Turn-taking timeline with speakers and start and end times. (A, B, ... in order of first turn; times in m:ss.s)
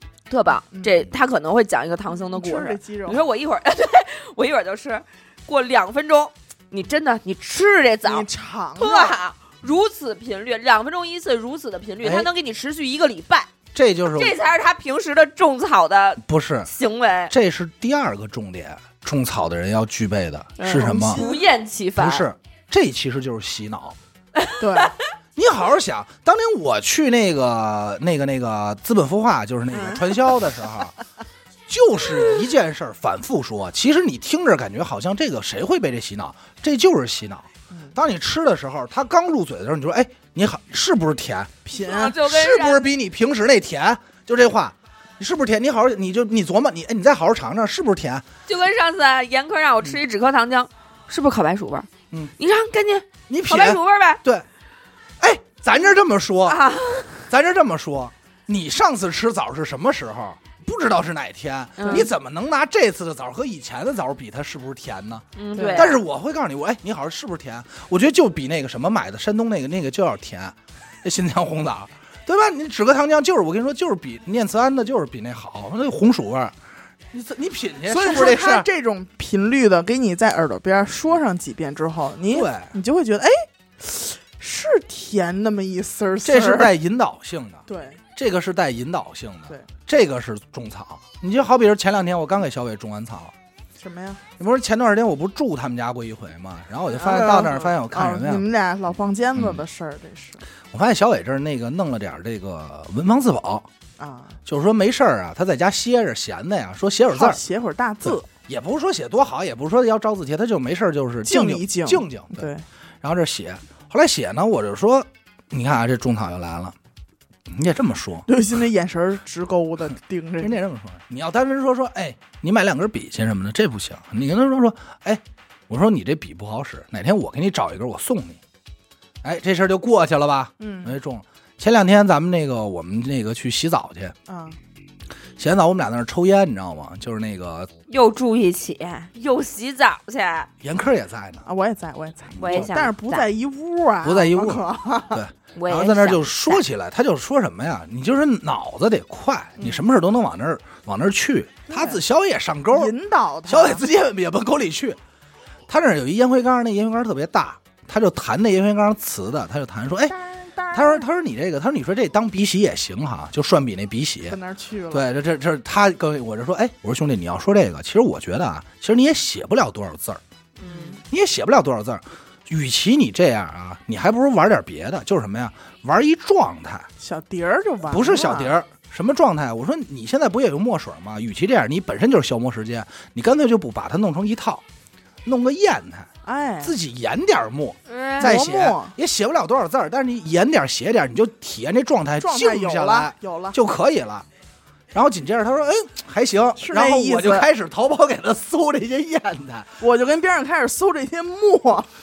0:00.3-0:08.3 A
0:02.2-0:03.3 B
0:08.0-0:09.2 B
0:08.8-0:13.5 A
0:12.0-0:12.3 C
0:13.7-0:14.4 C
0:14.2-0:17.3 A
0:16.2-0:16.7 C
0:17.3-0:21.2 C
0:20.6-0:21.4 B
0:20.6-0:22.3 A
0:22.0-0:24.0 C
0:24.4-0:24.9 A
0:24.6-0:24.9 B
0:25.4-0:30.9 C
0:29.7-0:30.2 B
0:31.7-0:41.6 C
0:37.7-0:38.0 B
0:41.6-0:42.2 B
0:41.7-0:42.8 A
0:42.2-0:48.2 C
0:48.5-0:54.2 A
0:53.3-0:54.5 C
0:55.2-0:56.6 C
0:56.5-0:57.2 A
0:57.3-1:16.5 C
1:01.8-1:02.1 A
1:05.4-1:05.9 A
1:05.6-1:06.0 B
1:17.1-1:18.7 C
1:17.9-1:26.7 B
1:22.3-1:22.7 C
1:26.2-1:33.3 C
1:27.7-1:28.0 B
1:33.8-1:34.2 B
1:34.4-1:38.5 C
1:37.0-1:40.4 B
1:39.4-1:39.6 C
1:40.7-1:43.7 C
1:44.0-1:44.4 B
1:44.5-1:47.4 C
1:47.1-1:48.3 B
1:48.0-1:52.5 C
1:51.2-1:52.6 B
1:53.0-1:56.8 C
1:57.5-1:58.3 C
1:58.3-2:00.5 B
2:00.4-2:08.4 C
2:09.2-2:14.2 C
2:10.6-2:11.0 B
2:14.3-2:14.6 B
2:15.4-2:17.7 C
2:17.9-2:20.5 A
2:20.6-2:21.5 C
2:21.5-2:25.2 B
2:22.4-2:22.7 C
2:22.4-2:23.3 A
2:24.0-2:32.9 C
2:25.6-2:26.6 A
2:31.7-2:32.0 B
2:32.7-2:33.8 B
2:33.5-2:35.0 C
2:35.7-2:40.2 C
2:40.1-2:41.1 B
2:40.7-2:44.4 C
2:44.3-2:45.1 B
2:44.9-2:50.2 C
2:50.6-2:51.0 A
2:50.7-2:51.0 B
2:51.1-2:56.9 C
2:57.0-2:58.5 B
2:57.9-3:04.6 C
3:05.2-3:06.1 C
3:06.2-3:06.7 B
3:06.6-3:14.3 C
3:07.9-3:08.3 A
3:08.2-3:08.9 B
3:12.2-3:13.6 B
3:14.9-3:19.7 C
3:16.6-3:17.5 B
3:19.8-3:21.9 B